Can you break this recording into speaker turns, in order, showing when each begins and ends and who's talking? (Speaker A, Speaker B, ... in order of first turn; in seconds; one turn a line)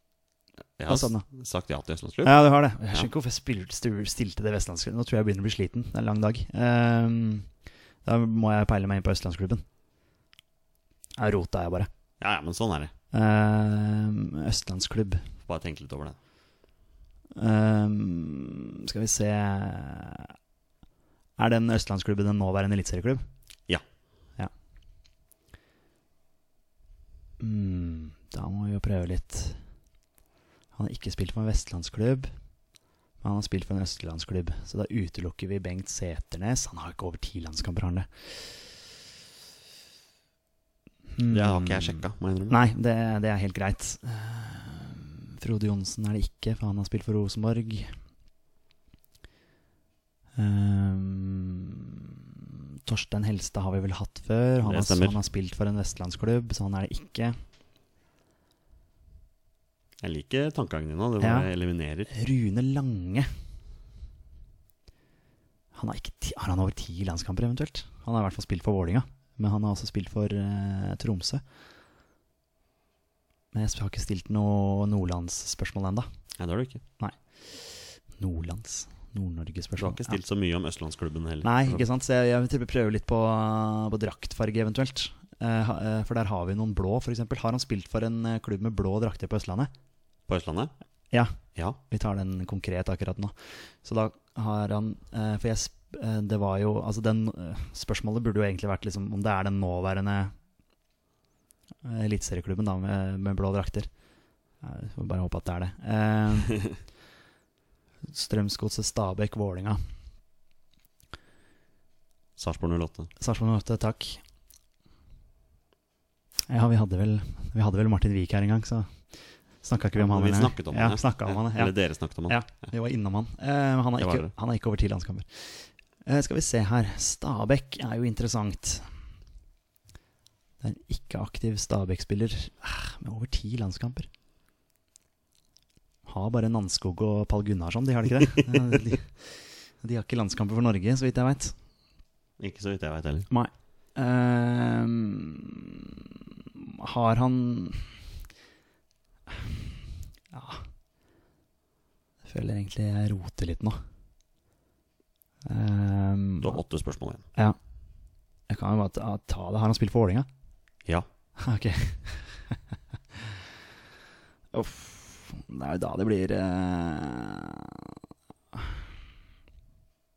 Speaker A: 0.8-2.4
Speaker B: 0.9-1.3
Speaker B: 2.2-7.5
Speaker B: 8.1-9.6
Speaker B: 11.2-11.9
Speaker A: 12.2-12.9
Speaker B: 13.1-15.3
Speaker A: 15.4-16.2
Speaker B: 17.4-20.3
Speaker B: 21.4-23.2
Speaker B: 27.4-29.6
Speaker B: 30.8-32.3
Speaker B: 33.2-38.2
Speaker B: 41.1-47.9
Speaker A: 41.3-42.6
Speaker B: 50.4-52.2
Speaker B: 52.9-57.4
Speaker A: 54.6-55.2
Speaker A: 60.0-62.1
Speaker B: 61.2-61.5
Speaker B: 62.1-63.3
Speaker B: 65.8-71.4
Speaker B: 73.5-76.1
Speaker A: 76.4-76.8
Speaker B: 77.0-80.2
Speaker A: 79.8-81.8
Speaker B: 81.4-89.7
Speaker A: 90.3-90.7
Speaker B: 91.9-100.3
Speaker B: 101.8-103.9
Speaker B: 104.6-106.7
Speaker B: 108.1-109.8
Speaker A: 112.4-113.1
Speaker B: 113.2-114.2
Speaker B: 116.5-119.0
Speaker B: 119.6-121.8
Speaker A: 120.0-122.4
Speaker B: 122.3-128.9
Speaker A: 124.0-124.3
Speaker B: 130.6-134.1
Speaker B: 136.1-141.5
Speaker A: 138.4-138.7
Speaker A: 142.4-143.3
Speaker B: 143.3-145.9
Speaker B: 146.6-147.9
Speaker B: 150.3-150.6
Speaker B: 152.2-153.8
Speaker B: 155.5-156.6
Speaker A: 156.4-157.2
Speaker B: 158.5-160.3
Speaker B: 161.4-162.6
Speaker B: 164.5-167.9